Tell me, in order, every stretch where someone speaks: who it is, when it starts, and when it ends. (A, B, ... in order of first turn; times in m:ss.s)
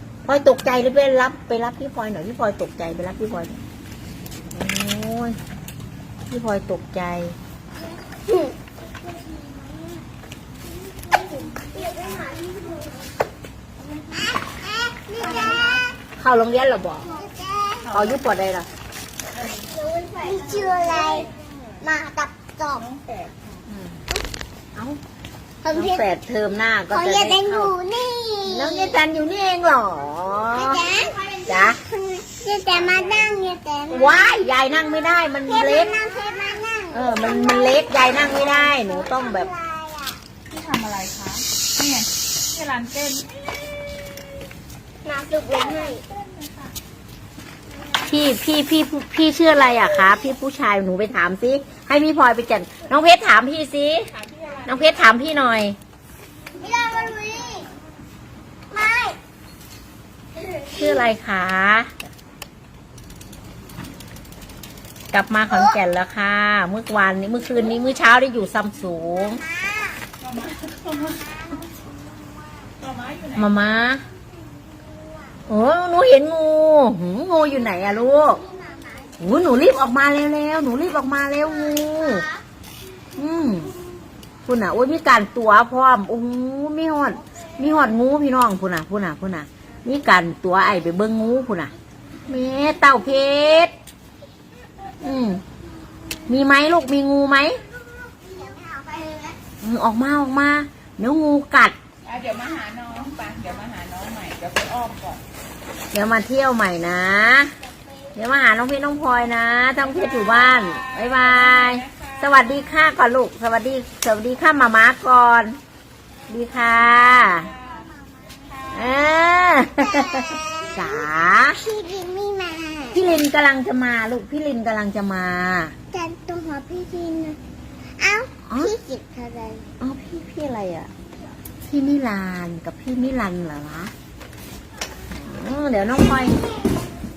0:00.2-0:03.6 A
0:04.5-0:05.4 A
0:06.3-0:07.4 A
0:08.1-0:08.5 B
0:09.2-0:09.7 B
0:11.1-0:13.0 B
0:14.2-0:15.8 B
0:15.2-0:15.8 C
0:16.2-0:17.1 A
0:17.0-0:17.9 B
0:17.8-0:18.7 A
0:17.9-0:18.2 C
0:19.4-0:19.7 C
0:19.7-0:21.3 B
0:20.8-0:21.3 C
0:21.8-0:22.9 B
0:22.8-0:23.4 C
0:23.7-0:24.0 A
0:25.6-0:26.1 B
0:25.7-0:27.7 A
0:26.9-0:29.0 B
0:28.4-0:30.8 A
0:30.5-0:34.3 B
0:31.4-0:31.8 A
0:33.9-0:35.9 A
0:35.3-0:40.2 B
0:36.9-0:39.5 A
0:40.5-0:43.5 C
0:45.0-0:46.0 B
0:45.7-0:46.7 C
0:48.0-0:54.1 A
0:54.2-0:54.8 C
0:54.6-0:55.8 A
0:56.6-0:57.7 B
0:58.7-0:59.2 B
1:00.7-1:01.9 A
1:05.1-1:09.4 A
1:09.4-1:10.0 B
1:10.2-1:11.3 C
1:11.4-1:12.3 B
1:12.8-1:13.5 C
1:13.3-1:14.0 A
1:14.9-1:15.3 B
1:15.5-1:18.4 A
1:18.4-1:19.1 B
1:19.2-1:22.2 A
1:21.7-1:22.4 B
1:23.2-1:23.7 A
1:24.4-1:31.7 A
1:32.3-1:33.7 A
1:35.0-1:35.4 A
1:36.3-1:37.6 A
1:37.9-1:39.4 B
1:39.6-1:41.8 A
1:42.0-1:45.2 C
1:45.9-1:47.5 A
1:48.1-1:55.6 A
1:50.6-1:52.1 C
1:56.3-1:57.5 A
1:57.6-1:57.8 C
1:58.7-2:01.6 A
2:00.7-2:03.0 B
2:02.9-2:05.7 A
2:05.9-2:07.4 B
2:08.0-2:09.7 B
2:08.5-2:08.7 A
2:09.8-2:10.9 A
2:11.6-2:13.9 A
2:15.1-2:16.4 A